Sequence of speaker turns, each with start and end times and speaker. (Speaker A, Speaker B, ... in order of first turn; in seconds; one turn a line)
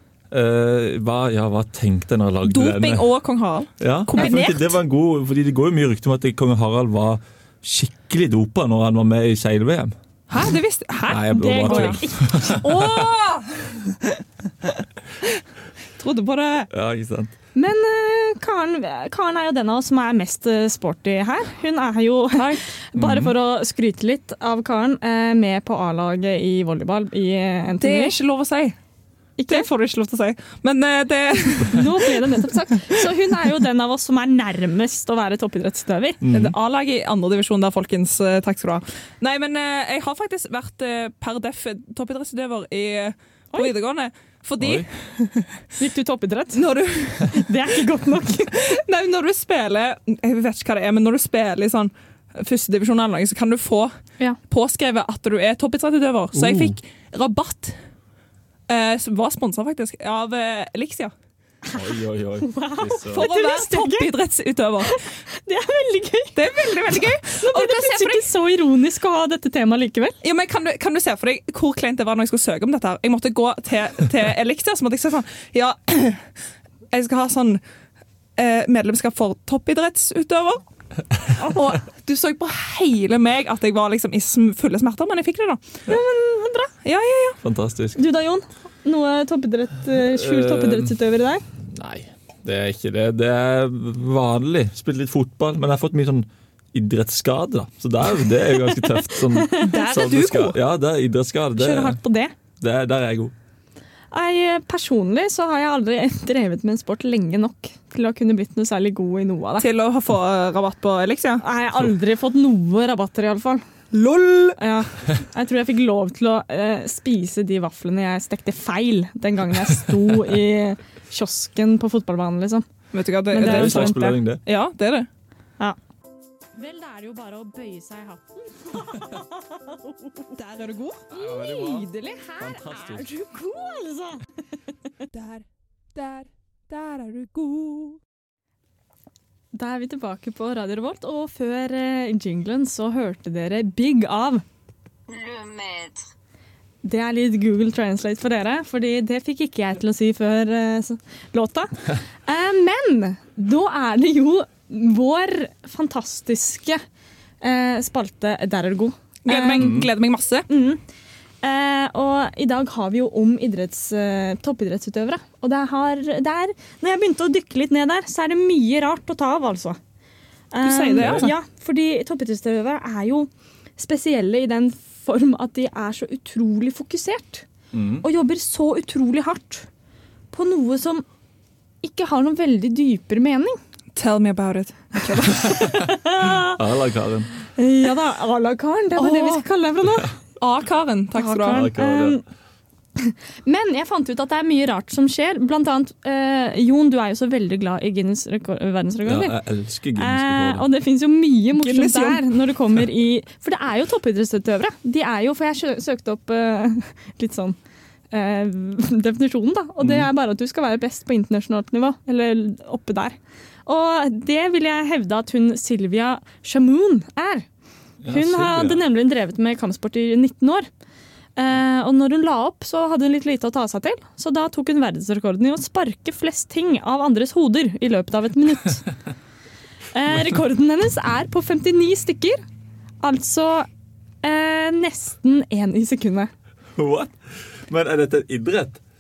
Speaker A: 0.3-3.1
Speaker B: 2.5-4.8
Speaker A: 3.8-9.9
Speaker B: 10.3-12.0
Speaker A: 11.1-13.1
Speaker C: 11.4-12.9
Speaker B: 12.5-13.9
Speaker B: 16.0-16.7
Speaker A: 16.7-17.3
Speaker C: 17.6-28.1
Speaker A: 23.0-23.4
Speaker B: 27.8-28.8
Speaker C: 29.4-29.7
Speaker B: 29.5-32.2
Speaker C: 31.6-36.2
Speaker A: 36.2-36.6
Speaker B: 36.3-45.5
Speaker A: 44.6-44.9
Speaker C: 45.8-46.7
Speaker B: 46.5-47.4
Speaker C: 47.2-48.8
Speaker B: 48.6-53.9
Speaker B: 54.5-57.8
Speaker A: 56.3-56.8
Speaker B: 58.7-61.1
Speaker C: 61.6-61.9
Speaker A: 61.7-63.3
Speaker C: 62.4-64.1
Speaker B: 63.1-65.0
Speaker C: 64.9-70.2
Speaker B: 66.3-68.3
Speaker B: 70.2-76.2
Speaker B: 76.9-77.6
Speaker B: 78.4-80.6
Speaker B: 81.4-85.7
Speaker C: 85.9-86.7
Speaker B: 86.8-87.4
Speaker A: 87.4-88.0
Speaker C: 88.0-91.4
Speaker A: 90.1-90.9
Speaker A: 91.7-102.0
Speaker C: 99.4-99.8
Speaker B: 99.6-100.6
Speaker C: 101.6-102.3
Speaker A: 102.6-103.3
Speaker C: 104.1-109.7
Speaker B: 109.6-111.4
Speaker C: 111.4-113.6
Speaker B: 113.9-114.6
Speaker C: 114.6-122.7
Speaker B: 122.9-125.1
Speaker C: 123.3-124.2
Speaker A: 123.4-124.4
Speaker C: 126.5-130.3
Speaker B: 130.4-131.0
Speaker C: 131.1-134.3
Speaker A: 131.1-131.9
Speaker A: 132.4-133.1
Speaker B: 135.1-135.4
Speaker B: 135.9-138.0
Speaker C: 139.5-144.4
Speaker C: 146.8-156.8
Speaker C: 157.4-159.8
Speaker B: 159.3-160.5
Speaker A: 159.6-159.9
Speaker C: 160.5-160.8
Speaker C: 161.4-169.8
Speaker C: 170.5-177.5
Speaker B: 170.6-171.3
Speaker A: 171.0-171.3
Speaker A: 177.7-178.1
Speaker C: 178.0-179.7
Speaker C: 180.3-181.1
Speaker C: 181.8-183.6
Speaker B: 183.9-185.8
Speaker C: 185.1-186.6
Speaker A: 185.5-187.3
Speaker C: 187.6-190.1
Speaker B: 189.0-189.4
Speaker B: 190.4-191.7
Speaker C: 191.2-192.2
Speaker A: 191.5-192.2
Speaker C: 193.0-199.4
Speaker A: 199.1-200.7
Speaker C: 200.0-207.6
Speaker B: 201.6-202.2
Speaker C: 208.1-217.4
Speaker A: 209.8-210.1
Speaker A: 218.0-218.8
Speaker C: 218.1-220.7
Speaker C: 221.4-228.8
Speaker C: 229.9-232.4
Speaker C: 233.0-233.7
Speaker C: 234.2-236.3
Speaker A: 236.8-238.8